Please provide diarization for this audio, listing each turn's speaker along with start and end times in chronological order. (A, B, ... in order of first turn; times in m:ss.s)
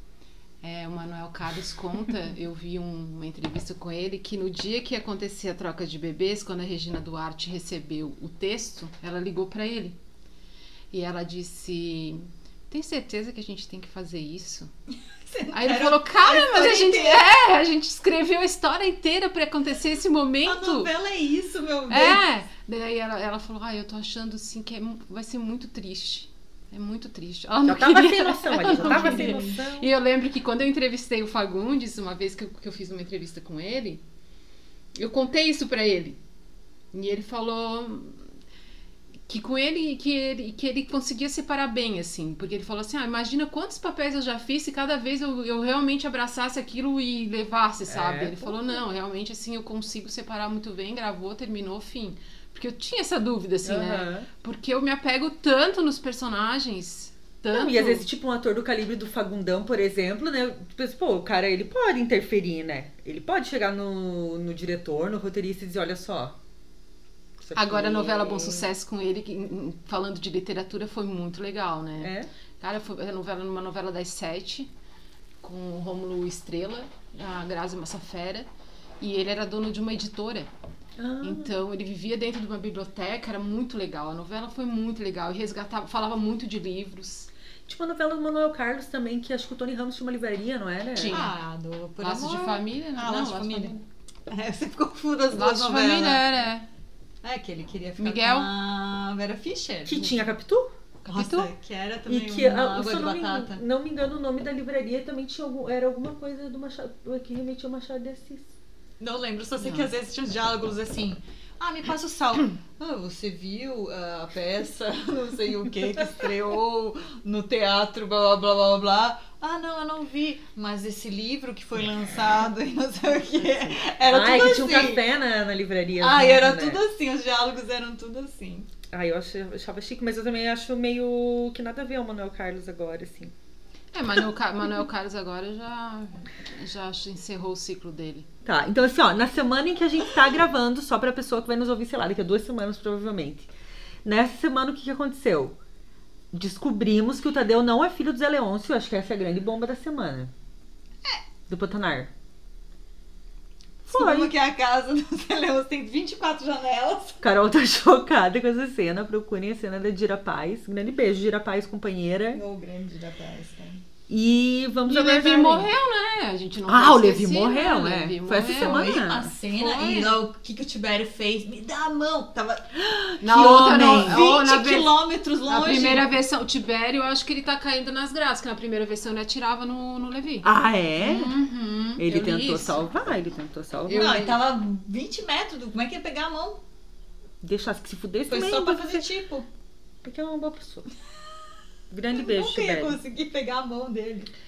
0:00.6-0:10.0 A
0:10.9-0:14.7 A
0:15.3-0:17.2 B
0:15.5-0:20.9 A
0:20.4-0:22.2 B
0:21.9-0:34.0 A
0:27.7-0:29.9 C
0:28.7-0:29.6 B
0:35.0-0:36.2 A
0:36.9-0:38.3 A
0:39.3-0:58.1 A
0:47.9-0:48.8 C
0:53.6-0:54.3 C
0:57.5-1:06.4 C
1:07.4-1:08.7 C
1:07.6-1:14.7 A
1:12.0-1:12.3 C
1:15.4-1:18.5 A
1:19.0-1:20.5 A
1:21.0-1:21.5 C
1:21.2-1:27.3 A
1:27.7-1:31.2 C
1:31.0-1:31.3 A
1:31.1-1:36.3 B
1:32.0-1:33.8 A
1:35.4-1:36.7 A
1:37.2-1:40.1 B
1:38.0-1:38.5 A
1:39.9-1:40.7 C
1:41.0-1:43.6 B
1:41.1-1:41.5 A
1:42.1-1:48.5 C
1:49.0-2:05.0 B
2:04.1-2:06.8 C
2:06.0-2:08.7 B
2:08.9-2:13.3 C
2:13.9-2:18.3 A
2:18.4-2:23.5 C
2:24.0-2:25.6 C
2:26.3-2:30.3 C
2:31.5-2:32.1 C
2:33.8-2:34.3 C
2:33.9-2:37.2 B
2:37.2-2:42.4 C
2:42.3-2:43.8 B
2:44.1-2:45.7 C
2:44.9-2:49.0 A
2:46.7-2:49.3 C
2:48.5-2:56.1 B
2:49.5-2:50.2 A
2:53.2-2:54.9 A
2:53.2-2:54.3 C
2:55.4-3:02.8 A
3:00.4-3:01.4 C
3:02.0-3:04.2 C
3:03.9-3:04.4 A
3:03.9-3:06.6 B
3:07.4-3:09.0 C
3:08.3-3:09.5 B
3:10.0-3:10.9 C
3:11.9-3:13.0 C
3:12.1-3:14.3 B